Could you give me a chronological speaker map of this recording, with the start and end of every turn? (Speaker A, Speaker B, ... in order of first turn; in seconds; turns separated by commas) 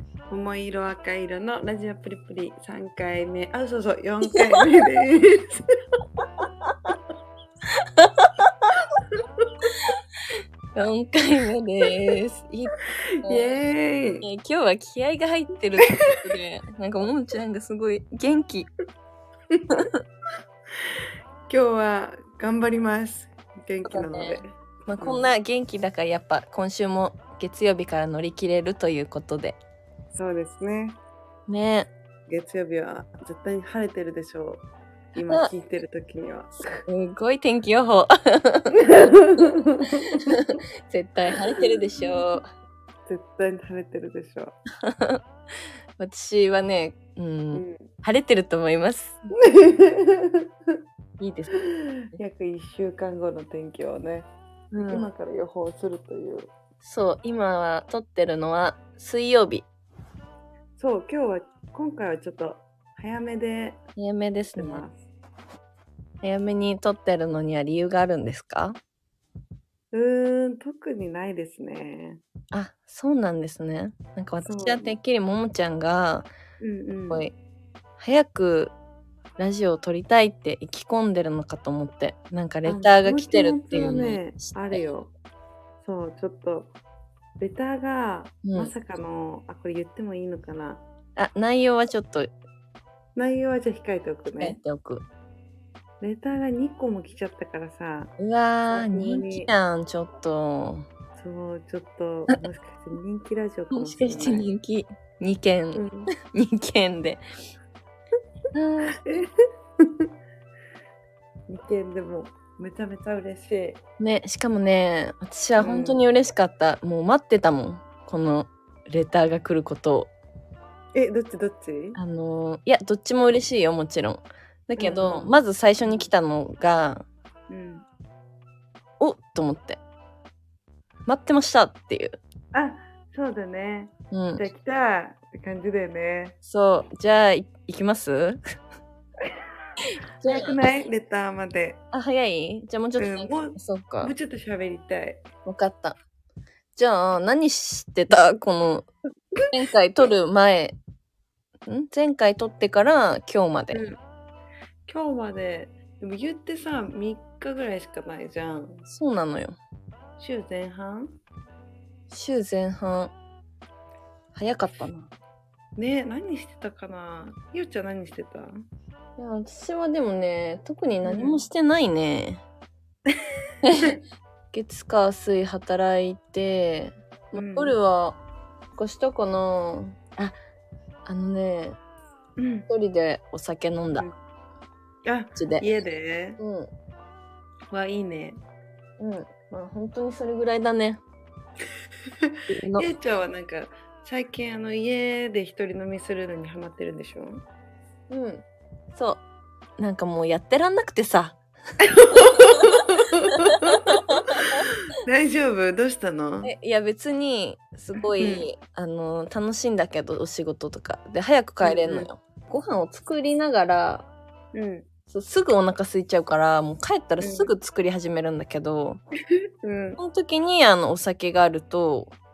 Speaker A: 0.3-5.6, Speaker A: 6.2-6.9, Speaker B: 8.0-8.3, Speaker A: 8.8-9.5, Speaker B: 10.7-13.5, Speaker A: 13.2-14.2, Speaker B: 14.2-18.7, Speaker A: 21.5-25.3, Speaker B: 23.8-29.6, Speaker A: 30.1-31.0, Speaker B: 31.5-31.9, Speaker A: 32.3-36.8, Speaker B: 36.9-39.0, Speaker A: 38.7-40.5, Speaker B: 40.3-42.4, Speaker A: 41.5-42.2, Speaker A: 43.1-44.5, Speaker B: 44.8-45.2, Speaker B: 46.0-49.2, Speaker A: 47.5-47.9, Speaker A: 49.3-50.5, Speaker B: 51.2-51.6, Speaker A: 51.6-54.3, Speaker B: 54.7-55.1, Speaker A: 54.9-56.5, Speaker B: 56.8-59.6, Speaker A: 60.8-63.8, Speaker B: 64.0-64.8, Speaker A: 64.5-65.0, Speaker B: 66.2-68.8, Speaker A: 69.9-72.2, Speaker B: 72.5-76.3, Speaker A: 74.4-74.9, Speaker A: 76.6-77.2, Speaker B: 78.0-78.7, Speaker B: 79.4-84.8, Speaker A: 82.6-85.1, Speaker A: 85.8-86.7, Speaker A: 87.4-90.8, Speaker B: 88.4-88.7, Speaker B: 91.2-92.3, Speaker A: 93.2-94.6, Speaker B: 94.4-95.0, Speaker A: 96.0-98.1, Speaker B: 98.2-100.8, Speaker A: 98.7-99.5, Speaker A: 101.2-104.5, Speaker B: 103.7-107.2, Speaker A: 105.7-106.1, Speaker B: 108.5-109.0, Speaker A: 108.9-109.3, Speaker A: 109.8-110.1, Speaker A: 111.5-113.8, Speaker B: 114.0-120.1, Speaker A: 115.6-116.0, Speaker A: 120.9-122.0, Speaker B: 121.9-127.0, Speaker A: 124.8-126.1, Speaker A: 127.5-127.8, Speaker B: 129.0-129.8, Speaker B: 131.1-132.2, Speaker A: 132.5-136.4, Speaker B: 134.1-134.4, Speaker B: 136.4-138.4, Speaker B: 140.2-140.6, Speaker A: 140.2-141.8, Speaker B: 141.9-144.1, Speaker A: 143.0-145.2, Speaker B: 145.4-146.0, Speaker B: 146.8-148.9, Speaker B: 149.5-150.8, Speaker B: 151.7-153.9, Speaker A: 153.7-154.0, Speaker A: 154.9-158.8, Speaker B: 158.9-159.6, Speaker A: 160.2-161.1, Speaker B: 162.1-163.1, Speaker B: 164.3-165.1, Speaker A: 165.8-168.5, Speaker B: 169.2-172.4, Speaker A: 171.0-171.4, Speaker B: 173.6-174.0, Speaker B: 174.5-178.2, Speaker A: 177.3-177.7, Speaker B: 178.7-180.3, Speaker B: 181.0-181.8, Speaker A: 182.4-182.7, Speaker B: 182.7-184.1, Speaker A: 185.0-186.4, Speaker B: 185.4-185.6, Speaker B: 186.4-186.7, Speaker A: 187.7-188.4, Speaker B: 189.0-191.0, Speaker B: 192.5-192.9, Speaker A: 192.8-197.4, Speaker B: 198.1-199.2, Speaker B: 199.8-201.4, Speaker A: 201.8-206.5, Speaker B: 202.3-202.7, Speaker B: 203.5-204.6, Speaker B: 206.4-214.1, Speaker A: 208.0-208.5, Speaker A: 211.6-212.1, Speaker A: 214.5-214.8, Speaker B: 215.1-219.0, Speaker A: 217.2-217.5, Speaker A: 219.6-220.0, Speaker B: 220.0-222.1